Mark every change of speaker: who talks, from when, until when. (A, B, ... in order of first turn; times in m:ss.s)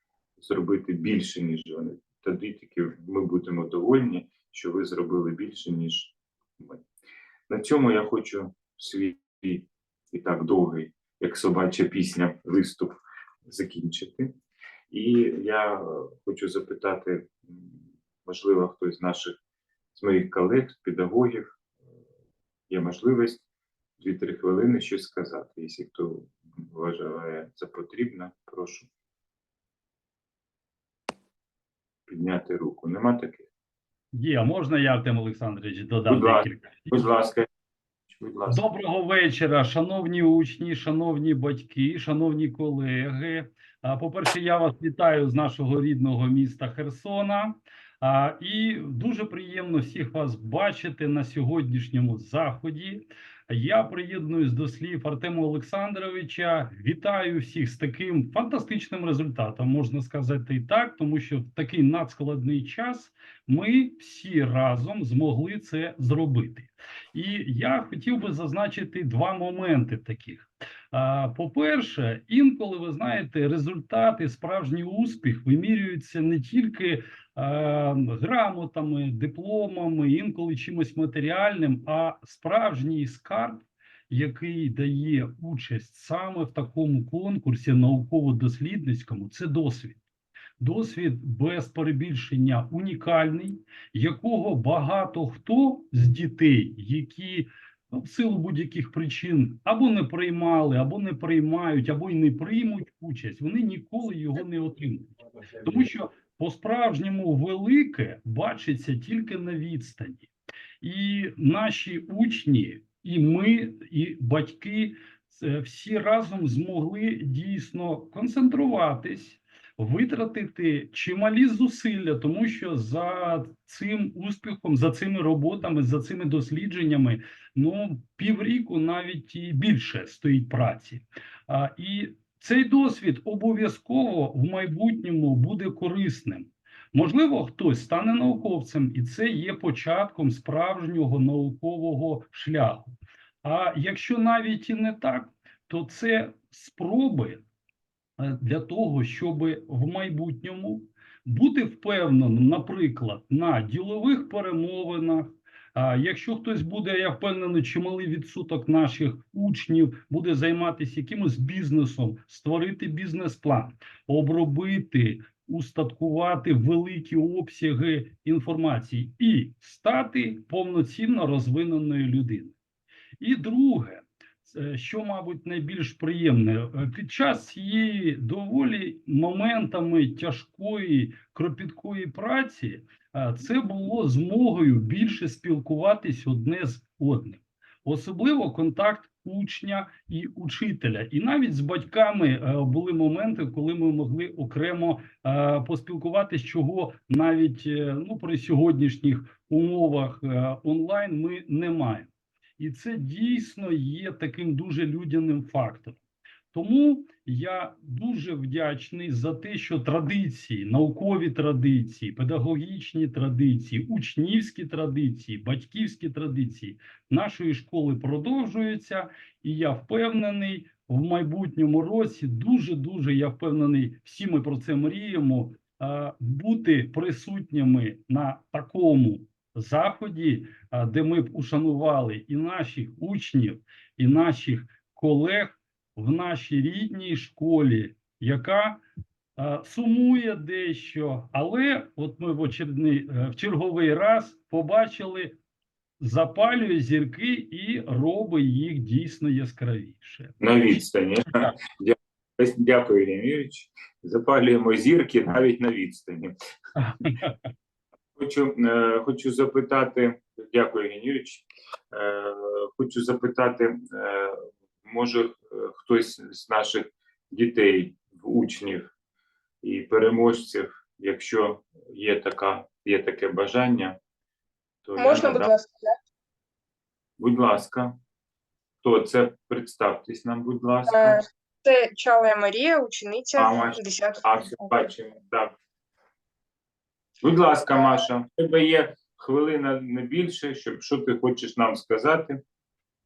0:00.4-0:06.8 A
0:07.5-0:14.3 A
0:14.9-0:19.4 A
0:20.0-0:21.5 A
0:22.7-0:23.4 A
0:24.0-0:28.9 A
0:32.1-0:33.5 A
0:34.1-0:37.0 B
0:36.1-0:37.5 A
0:38.2-0:38.6 A
0:38.5-1:30.0 B
1:30.6-1:50.3 B
1:50.8-2:27.4 B
2:28.2-2:52.6 B
2:53.2-3:26.0 B
3:26.5-3:58.8 B
3:59.4-4:05.4 B
4:06.0-4:10.4 B
4:10.4-4:16.3 A
4:16.8-4:17.3 B
4:18.2-4:28.9 A
4:29.6-4:34.0 A
4:34.8-4:35.5 A
4:35.0-4:35.9 C
4:37.2-4:38.0 A
4:38.8-4:41.2 A
4:40.9-4:44.9 C
4:43.4-4:45.5 A
4:47.2-4:52.4 A
4:47.7-4:48.0 C